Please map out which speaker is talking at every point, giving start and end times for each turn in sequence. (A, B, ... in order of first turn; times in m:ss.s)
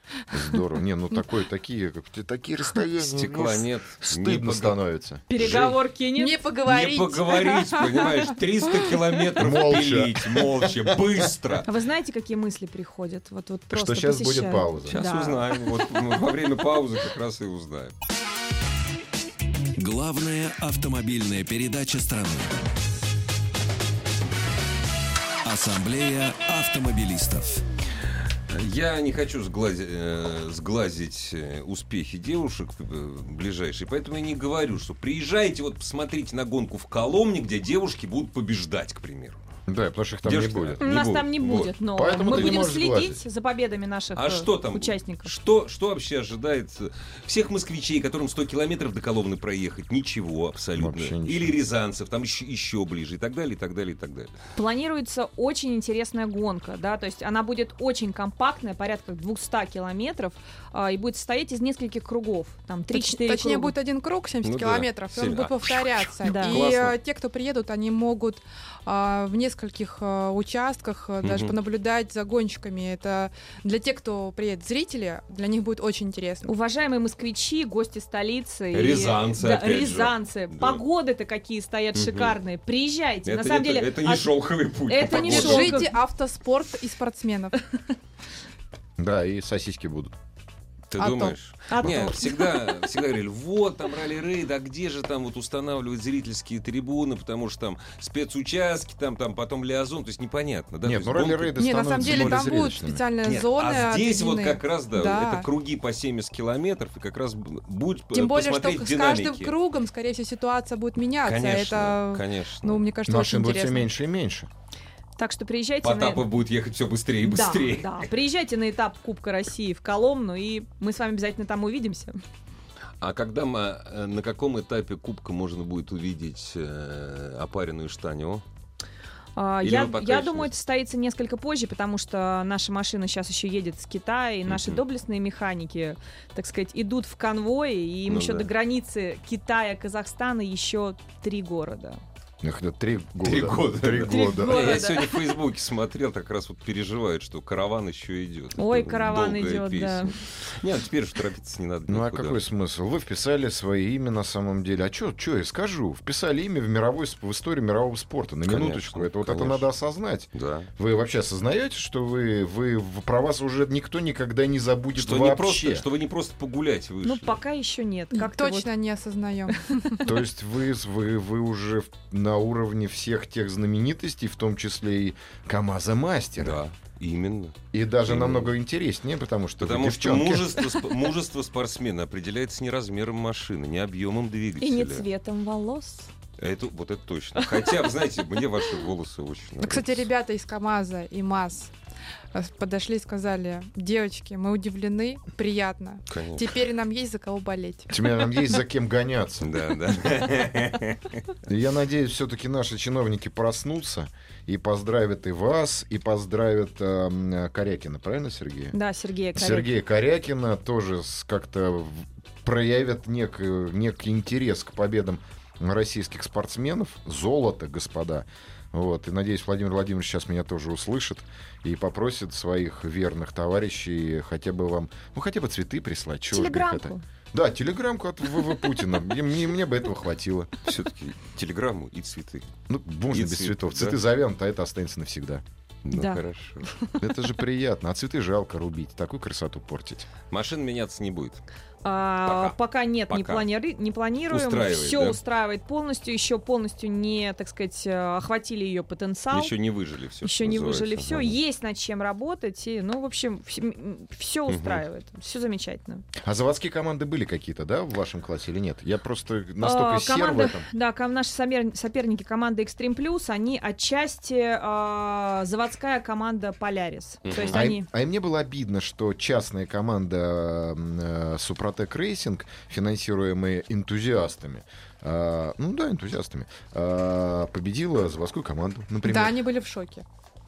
0:00.3-0:05.7 A
0:03.0-0:04.8 B
0:05.3-0:06.4 C
0:05.3-0:05.7 B
0:06.2-0:09.2 D
0:06.6-0:11.7 B
0:09.4-0:11.3 A
0:11.6-0:15.5 C
0:13.7-0:15.0 A
0:14.9-0:17.9 B
0:19.8-0:22.6 E
0:25.4-0:27.6 E
0:28.5-0:39.4 B
0:39.7-0:40.8 A
0:40.2-0:41.7 B
0:40.8-0:45.3 C
0:41.9-0:43.2 A
0:42.3-0:42.6 B
0:44.2-0:54.3 B
0:50.8-0:51.6 A
0:54.6-1:03.7 C
1:02.9-1:16.5 D
1:04.4-1:07.0 B
1:06.2-1:06.6 C
1:11.2-1:11.5 B
1:16.4-1:24.3 C
1:18.7-1:20.8 B
1:21.9-1:22.3 B
1:23.2-1:25.8 B
1:24.9-1:25.9 C
1:25.2-1:27.6 D
1:29.0-1:30.1 A
1:30.9-1:42.7 B
1:31.0-1:31.4 D
1:31.7-1:32.8 C
1:40.8-1:43.0 A
1:41.6-1:45.5 D
1:43.2-1:49.6 B
1:48.1-1:53.9 D
1:51.2-1:52.8 B
1:53.0-1:54.5 A
1:55.2-1:56.3 C
1:55.8-1:58.1 B
1:57.2-2:02.2 C
2:03.0-2:08.4 B
2:09.4-2:22.0 C
2:09.6-2:10.5 B
2:14.5-2:14.8 B
2:18.1-2:18.5 B
2:22.4-2:24.8 A
2:23.2-2:32.4 B
2:24.1-2:25.1 C
2:24.2-2:25.0 D
2:28.6-2:30.1 C
2:31.9-2:45.8 A
2:38.4-2:39.6 B
2:40.3-2:40.7 B
2:44.9-2:47.4 B
2:47.0-2:48.7 C
2:48.1-2:50.1 D
2:50.0-2:56.6 A
2:56.4-2:58.5 B
2:57.7-3:00.7 A
2:59.6-3:05.0 B
3:04.6-3:06.1 C
3:06.4-3:10.1 B
3:09.6-3:11.7 D
3:12.3-3:18.0 D
3:16.1-3:16.6 B
3:17.9-3:19.6 A
3:19.4-3:21.2 B
3:21.4-3:28.7 A
3:28.7-3:29.7 C
3:29.3-3:50.5 A
3:46.3-3:47.0 C
3:50.6-3:52.5 B
3:52.7-3:55.4 A
3:53.1-3:54.0 B
3:55.8-3:56.7 B
3:55.9-3:57.0 C
3:57.0-4:00.1 A
4:00.3-4:01.4 B
4:01.8-4:09.5 C
4:02.2-4:02.6 B
4:03.1-4:03.4 B
4:04.3-4:05.2 B
4:09.3-4:11.4 B
4:10.2-4:16.0 C
4:14.5-4:14.8 B
4:16.2-4:20.7 A
4:19.6-4:27.9 C
4:27.2-4:27.6 B
4:27.5-4:39.3 A
4:39.0-4:40.0 D